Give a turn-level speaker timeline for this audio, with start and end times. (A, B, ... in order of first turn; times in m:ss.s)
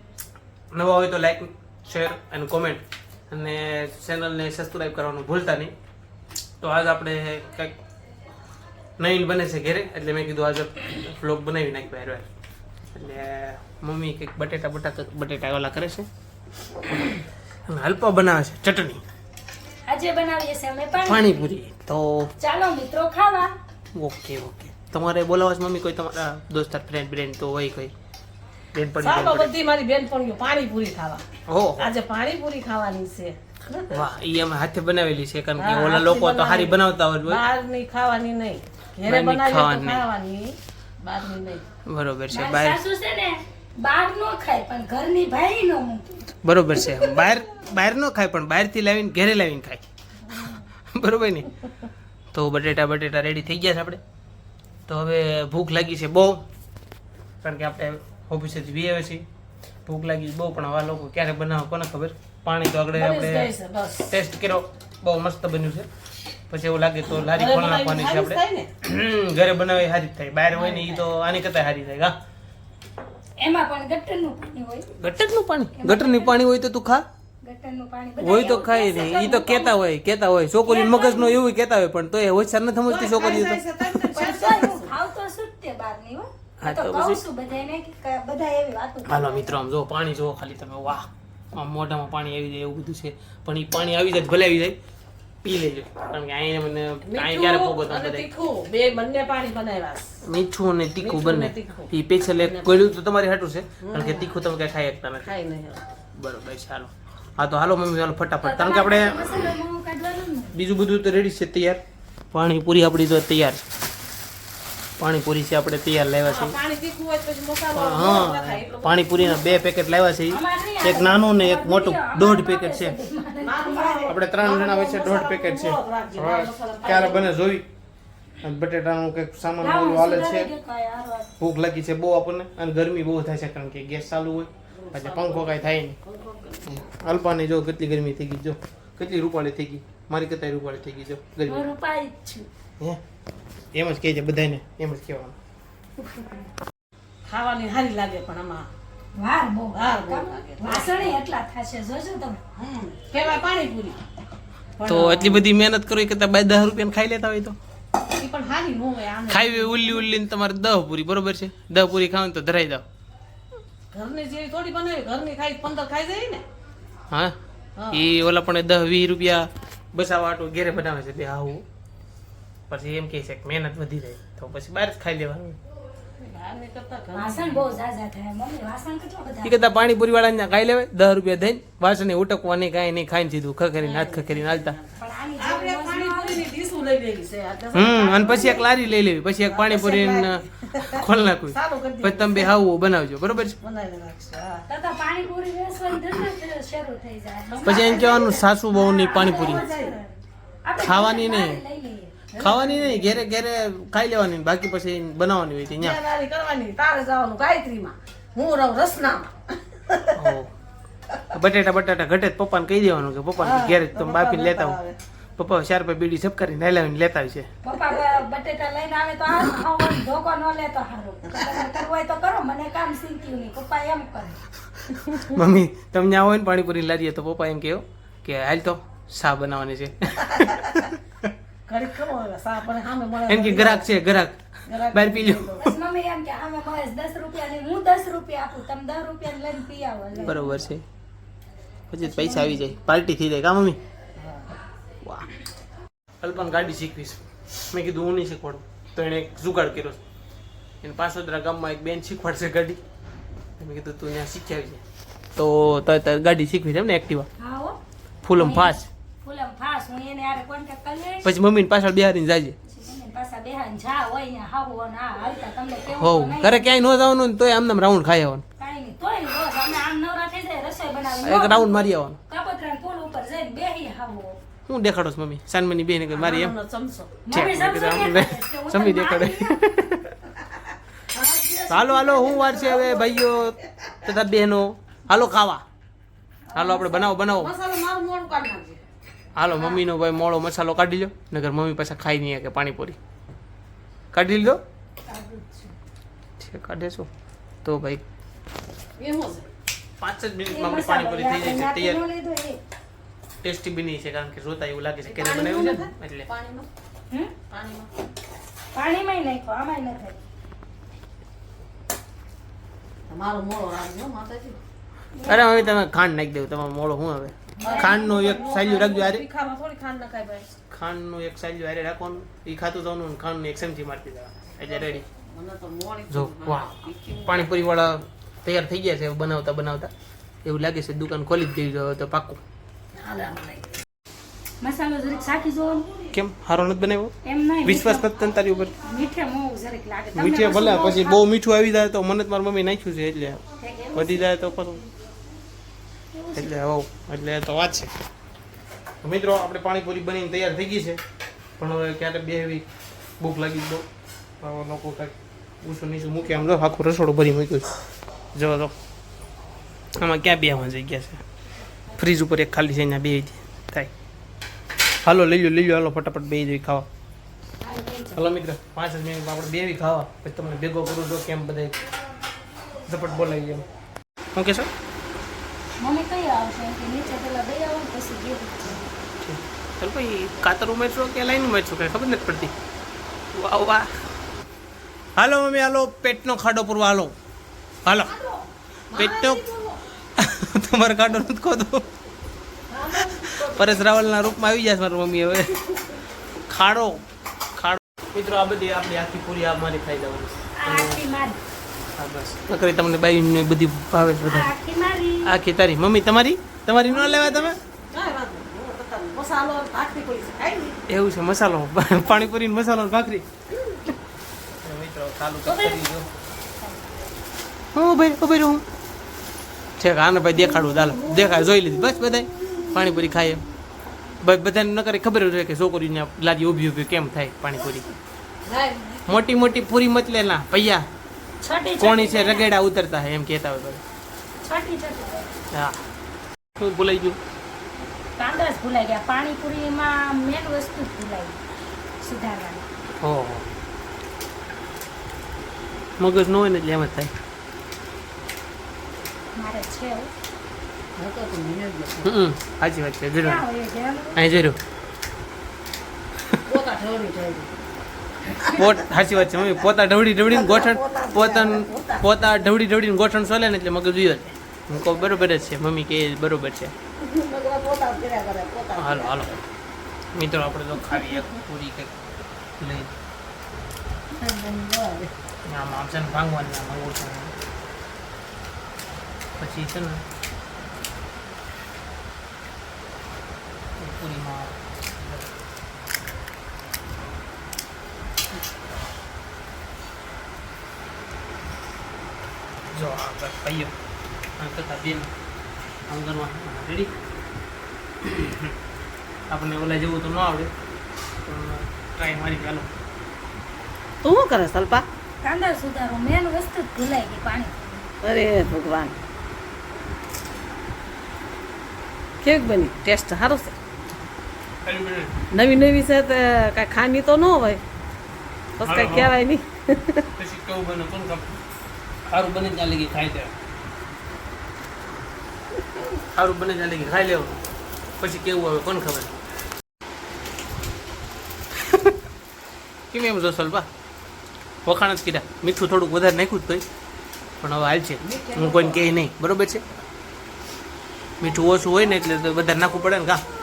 0:00.7-0:05.7 A
0:06.6-0:07.8 A
0:09.0-0:12.3 A
0:12.9-0:16.1 A
0:17.7-0:19.0 A
0:19.9-0:21.5 B
0:21.0-0:22.3 A
0:22.4-0:23.5 B
0:23.9-0:27.9 A
0:28.7-0:29.5 A
0:29.0-0:31.2 C
0:31.5-0:31.9 A
0:31.8-0:33.9 C
0:33.9-0:37.4 A
0:35.6-0:41.6 C
0:39.0-0:40.0 A
0:41.8-0:42.8 A
0:42.3-0:47.4 B
0:46.4-0:49.8 A
0:50.9-0:51.5 A
0:52.3-0:54.0 A
0:54.9-0:56.4 A
0:57.4-0:59.2 A
0:59.8-1:03.5 A
1:02.9-1:04.1 C
1:04.1-1:05.9 A
1:06.5-1:12.1 A
1:07.0-1:08.7 C
1:10.5-1:11.0 C
1:13.4-1:14.9 B
1:15.0-1:17.0 A
1:15.8-1:16.4 B
1:17.4-1:19.8 B
1:18.2-1:24.0 A
1:20.6-1:21.4 B
1:22.9-1:24.9 C
1:24.1-1:29.6 B
1:26.6-1:27.2 A
1:29.0-1:34.8 A
1:35.4-1:38.3 A
1:37.0-1:40.1 C
1:40.2-1:45.3 A
1:41.0-1:42.9 C
1:43.8-1:44.3 C
1:45.2-1:45.8 C
1:46.1-1:49.5 A
1:48.4-1:50.5 B
1:50.5-1:51.8 A
1:52.3-1:53.6 A
1:55.0-1:56.6 A
1:56.2-1:59.5 C
1:57.7-2:03.0 A
2:00.3-2:04.2 B
2:03.4-2:07.3 C
2:04.1-2:07.6 A
2:08.4-2:10.5 A
2:09.6-2:11.3 B
2:11.4-2:16.0 A
2:14.8-2:16.7 C
2:16.6-2:21.7 A
2:21.5-2:22.5 B
2:23.7-2:25.4 A
2:27.2-2:28.7 C
2:29.1-2:32.4 B
2:29.7-2:31.1 C
2:32.6-2:34.0 C
2:34.8-2:35.4 C
2:34.8-2:37.6 A
2:38.1-2:40.1 C
2:39.3-2:42.8 A
2:43.9-2:46.4 C
2:47.1-2:47.4 A
2:47.8-2:48.0 C
2:47.9-2:51.6 A
2:52.7-2:55.6 A
2:56.2-2:57.8 C
2:57.1-2:59.7 B
2:59.4-3:04.8 A
3:03.8-3:08.7 C
3:05.0-3:06.4 B
3:07.7-3:13.6 A
3:09.4-3:12.5 C
3:13.6-3:14.6 C
3:14.7-3:20.1 B
3:17.6-3:19.6 A
3:17.7-3:18.3 C
3:19.1-3:20.0 C
3:20.6-3:22.2 B
3:20.8-3:21.6 A
3:22.3-3:23.2 C
3:22.4-3:26.0 A
3:25.7-3:30.1 C
3:30.1-3:30.5 A
3:31.3-3:34.8 A
3:33.4-3:35.0 C
3:35.4-3:37.5 A
3:37.6-3:44.4 B
3:44.9-3:51.3 A
3:51.7-3:53.9 C
3:53.3-3:55.7 A
3:54.7-3:55.6 C
3:55.6-4:00.6 B
4:00.1-4:00.4 C
4:00.2-4:00.8 A
4:01.9-4:03.8 A
4:02.0-4:02.6 B
4:04.2-4:04.5 C
4:06.2-4:10.0 A
4:10.8-4:12.8 A
4:13.6-4:14.8 A
4:15.4-4:17.3 A
4:17.4-4:17.8 B
4:18.2-4:18.8 A
4:18.3-4:21.2 B
4:21.2-4:22.6 A
4:22.7-4:26.7 B
4:25.9-4:28.4 A
4:28.6-4:34.4 B
4:31.1-4:32.2 A
4:34.7-4:36.5 A
4:36.1-4:37.2 C
4:37.2-4:39.7 B
4:37.3-4:40.1 A
4:41.1-4:43.1 B
4:41.7-4:45.6 A
4:42.6-4:43.2 C
4:46.5-4:47.1 B
4:46.5-4:47.5 A
4:47.2-4:48.8 C
4:49.4-4:53.0 A
4:49.5-4:49.8 C
4:54.1-4:54.6 A
4:55.1-4:55.7 B
4:56.4-4:57.1 A
4:57.6-4:58.0 A
4:59.0-4:59.5 C
5:00.0-5:02.0 A
5:00.5-5:02.6 B
5:03.4-5:06.3 A
5:05.0-5:06.7 C
5:07.5-5:07.9 C
5:08.7-5:10.2 B
5:13.1-5:14.6 C
5:15.2-5:15.6 B
5:15.2-5:19.2 A
5:17.6-5:18.5 B
5:17.6-5:20.5 C
5:20.7-5:25.0 A
5:25.3-5:27.6 C
5:26.1-5:29.9 A
5:30.4-5:32.4 A
5:32.9-5:33.7 C
5:34.6-5:35.9 B
5:36.1-5:38.7 A
5:37.2-5:38.1 B
5:38.7-5:41.2 B
5:40.1-5:43.4 A
5:43.6-5:44.3 B
5:43.9-5:44.8 A
5:46.1-5:46.5 B
5:46.3-5:47.9 A
5:49.0-5:51.0 A
5:51.6-5:52.6 A
5:53.2-5:53.8 A
5:54.4-5:57.7 A
5:58.3-5:58.7 A
6:00.0-6:01.2 A
6:02.0-6:03.9 A
6:05.0-6:06.9 A
6:07.6-6:08.1 B
6:08.1-6:11.8 A
6:12.8-6:13.6 A
6:14.3-6:14.7 A
6:15.8-6:18.8 B
6:19.2-6:22.5 A
6:23.3-6:23.9 A
6:25.2-6:27.1 A
6:27.8-6:28.2 A
6:28.9-6:29.8 C
6:28.9-6:29.5 A
6:30.2-6:31.9 A
6:32.7-6:33.8 C
6:33.0-6:35.7 A
6:36.4-6:37.0 A
6:37.5-6:41.0 A
6:40.6-6:41.4 B
6:42.0-6:44.5 A
6:44.2-6:45.3 B
6:45.2-6:47.6 A
6:46.9-6:47.5 B
6:47.9-6:50.8 C
6:50.9-6:53.2 A
6:54.6-6:56.1 A
6:55.4-6:56.0 B
6:56.6-6:57.0 B
6:57.7-6:58.6 A
6:59.8-7:03.4 A
7:00.5-7:01.4 B
7:04.2-7:07.9 A
7:08.4-7:09.2 C
7:09.1-7:10.8 A
7:11.4-7:12.5 B
7:11.8-7:13.8 A
7:14.4-7:15.3 B
7:15.5-7:15.8 A
7:16.6-7:17.2 A
7:18.2-7:21.4 B
7:22.0-7:22.7 B
7:23.0-7:23.4 A
7:26.0-7:27.1 A
7:29.3-7:30.1 B
7:31.0-7:32.1 C
7:32.0-7:33.4 A
7:33.2-7:34.2 B
7:34.1-7:34.6 A
7:36.4-7:37.7 C
7:38.5-7:46.7 A
7:40.3-7:42.1 C
7:47.0-7:49.4 C
7:48.8-7:49.4 A
7:50.1-7:52.0 A
7:50.8-7:51.2 C
7:52.6-7:52.9 A
7:54.1-7:55.1 C
7:55.4-7:57.3 A
7:59.4-8:00.0 A
8:03.8-8:05.3 A
8:12.7-8:13.7 A
8:14.4-8:15.1 A
8:15.9-8:16.9 A
8:18.0-8:18.5 A
8:19.3-8:20.5 A
8:21.2-8:22.7 A
8:24.0-8:24.8 C
8:25.2-8:27.6 B
8:28.0-8:29.0 C
8:32.2-8:33.6 C
8:34.6-8:35.2 A
8:35.3-8:37.6 C
8:38.6-8:40.0 C
8:38.6-8:39.1 A
8:40.2-8:41.4 A
8:42.1-8:43.3 A
8:46.1-8:47.4 A
8:48.0-8:49.1 A
8:52.9-8:53.7 A
8:54.6-8:56.6 A
8:57.4-8:59.6 A
8:58.0-8:58.9 C
9:01.2-9:03.2 A